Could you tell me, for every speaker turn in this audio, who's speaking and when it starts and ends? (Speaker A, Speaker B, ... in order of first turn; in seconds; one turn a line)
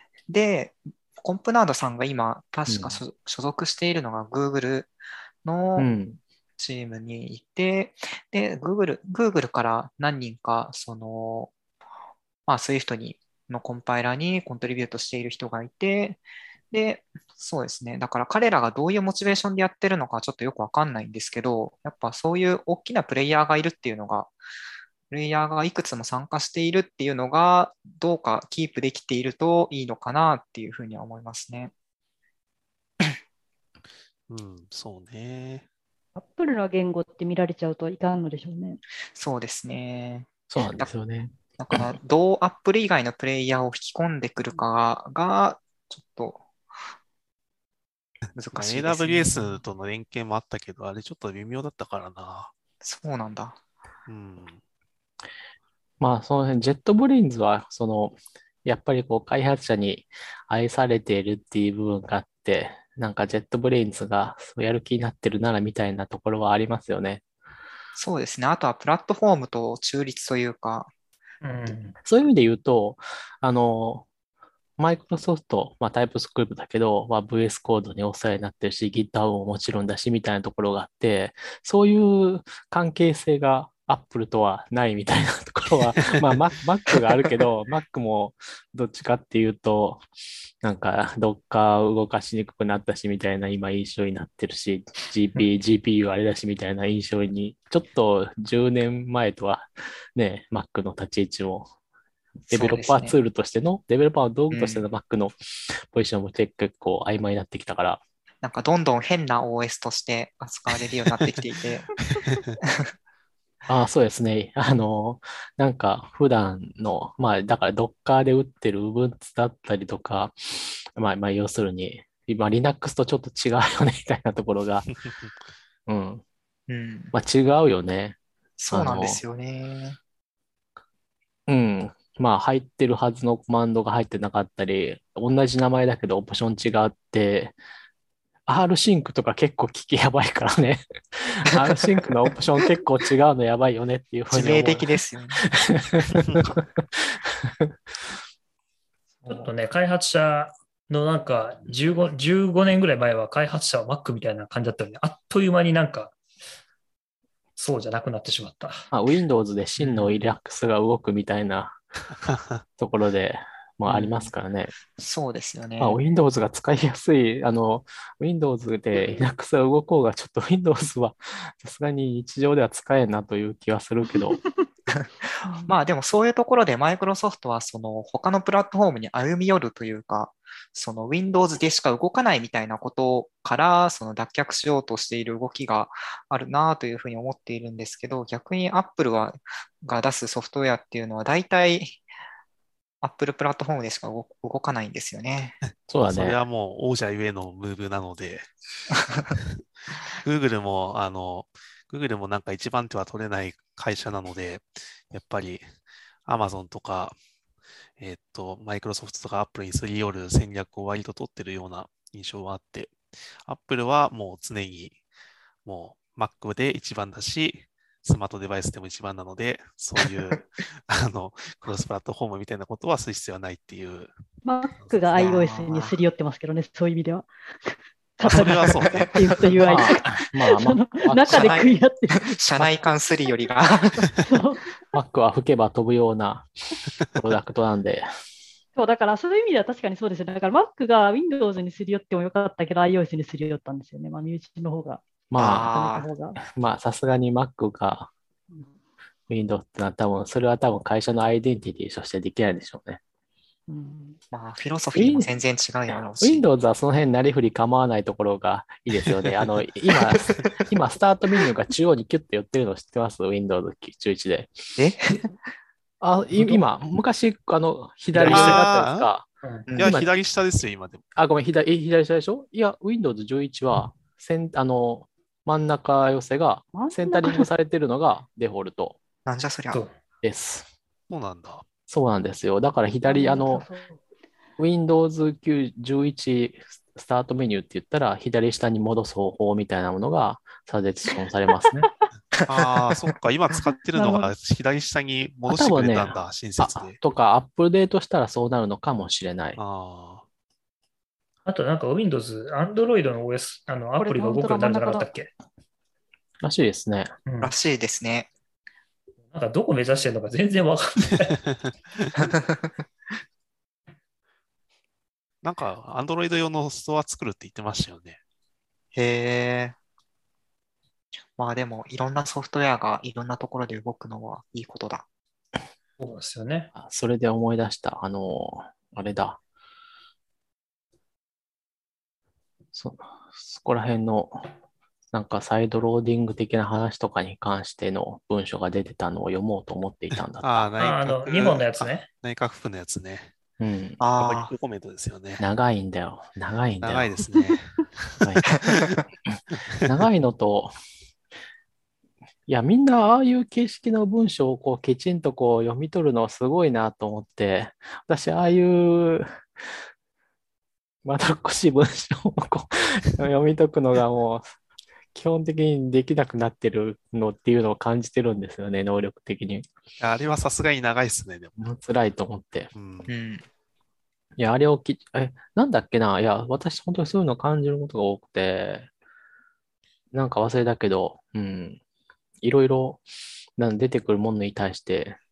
Speaker A: 0.3-4.9
Speaker B: 2.7-3.0
Speaker A: 5.4-5.9
Speaker B: 5.8-6.2
Speaker A: 6.6-11.5
Speaker A: 12.5-24.3
Speaker A: 25.1-31.7
Speaker C: 34.3-35.6
Speaker D: 36.1-38.8
Speaker A: 39.1-40.9
Speaker B: 40.5-41.4
Speaker A: 41.6-46.4
Speaker A: 48.3-49.6
Speaker C: 48.5-52.5
Speaker A: 52.8-53.6
Speaker C: 54.1-54.6
Speaker B: 56.0-67.2
Speaker A: 68.0-70.9
Speaker E: 71.4-71.9
Speaker B: 72.0-74.1
Speaker B: 74.8-90.0
Speaker B: 90.6-101.7
Speaker B: 102.5-108.0
Speaker A: 102.5-103.1
Speaker A: 104.5-104.8
Speaker A: 108.4-112.0
Speaker C: 112.0-112.5
Speaker A: 112.6-112.9
Speaker B: 113.7-124.9
Speaker C: 124.9-125.3
Speaker B: 125.9-126.2
Speaker A: 126.7-127.1
Speaker B: 127.1-128.2
Speaker A: 128.6-130.0
Speaker B: 128.7-129.2
Speaker B: 131.5-137.6
Speaker B: 138.5-144.9
Speaker A: 144.3-145.5
Speaker B: 145.5-147.7
Speaker C: 146.1-146.6
Speaker E: 149.3-156.1
Speaker E: 157.6-158.8
Speaker B: 158.9-161.8
Speaker A: 159.8-160.1
Speaker C: 162.3-162.6
Speaker B: 162.8-164.7
Speaker A: 163.8-164.3
Speaker A: 165.0-166.0
Speaker B: 165.8-174.4
Speaker A: 174.9-192.0
Speaker D: 175.4-175.8
Speaker A: 193.0-195.6
Speaker B: 195.9-196.4
Speaker C: 196.0-198.5
Speaker A: 199.0-199.3
Speaker C: 200.2-205.6
Speaker C: 206.2-207.2
Speaker C: 208.0-214.9
Speaker C: 215.6-224.1
Speaker D: 224.4-232.4
Speaker C: 224.8-225.2
Speaker A: 225.1-226.0
Speaker C: 228.2-229.5
Speaker A: 229.0-229.7
Speaker B: 229.6-231.6
Speaker A: 231.3-234.2
Speaker D: 234.1-234.7
Speaker B: 234.9-236.5
Speaker B: 237.0-238.0
Speaker D: 238.8-245.1
Speaker B: 245.3-245.7
Speaker A: 245.4-246.1
Speaker D: 245.6-246.4
Speaker B: 246.4-248.1
Speaker B: 249.3-253.0
Speaker D: 253.7-254.2
Speaker A: 254.3-256.4
Speaker B: 254.9-255.3
Speaker B: 255.9-264.5
Speaker C: 258.9-259.5
Speaker A: 260.1-260.4
Speaker A: 264.8-265.2
Speaker B: 266.0-269.2
Speaker E: 268.1-268.7
Speaker C: 268.2-269.1
Speaker E: 269.4-269.7
Speaker A: 269.7-269.9
Speaker B: 269.8-270.1
Speaker C: 269.8-271.0
Speaker B: 271.1-279.0
Speaker D: 276.7-277.5
Speaker A: 279.2-279.8
Speaker B: 280.2-280.7
Speaker C: 281.1-281.6
Speaker B: 281.9-283.6
Speaker D: 283.0-284.0
Speaker B: 284.6-291.9
Speaker D: 291.8-292.1
Speaker A: 292.4-292.7
Speaker C: 292.4-297.0
Speaker D: 293.9-294.3
Speaker B: 295.5-299.6
Speaker C: 299.6-300.2
Speaker E: 301.4-305.3
Speaker D: 304.0-305.1
Speaker B: 306.4-307.1
Speaker E: 307.2-307.5
Speaker A: 307.4-308.3
Speaker E: 309.3-311.4
Speaker A: 312.2-312.6
Speaker C: 315.4-318.2
Speaker A: 318.9-319.8
Speaker A: 321.4-325.1
Speaker E: 326.0-326.7
Speaker B: 326.7-329.4
Speaker B: 332.7-334.4
Speaker B: 335.1-340.7
Speaker C: 340.4-343.3
Speaker E: 340.8-342.1
Speaker B: 343.6-344.0
Speaker A: 344.0-344.5
Speaker C: 344.2-345.4
Speaker B: 345.4-347.2
Speaker C: 346.8-349.0
Speaker B: 348.2-348.7
Speaker B: 349.8-350.7
Speaker B: 352.5-359.2
Speaker B: 361.0-364.5
Speaker B: 365.1-369.7
Speaker C: 370.0-371.5
Speaker B: 371.6-372.7
Speaker C: 372.7-373.1
Speaker A: 373.1-373.4
Speaker B: 374.4-378.9
Speaker B: 380.1-381.8
Speaker B: 382.4-383.0
Speaker B: 383.6-385.2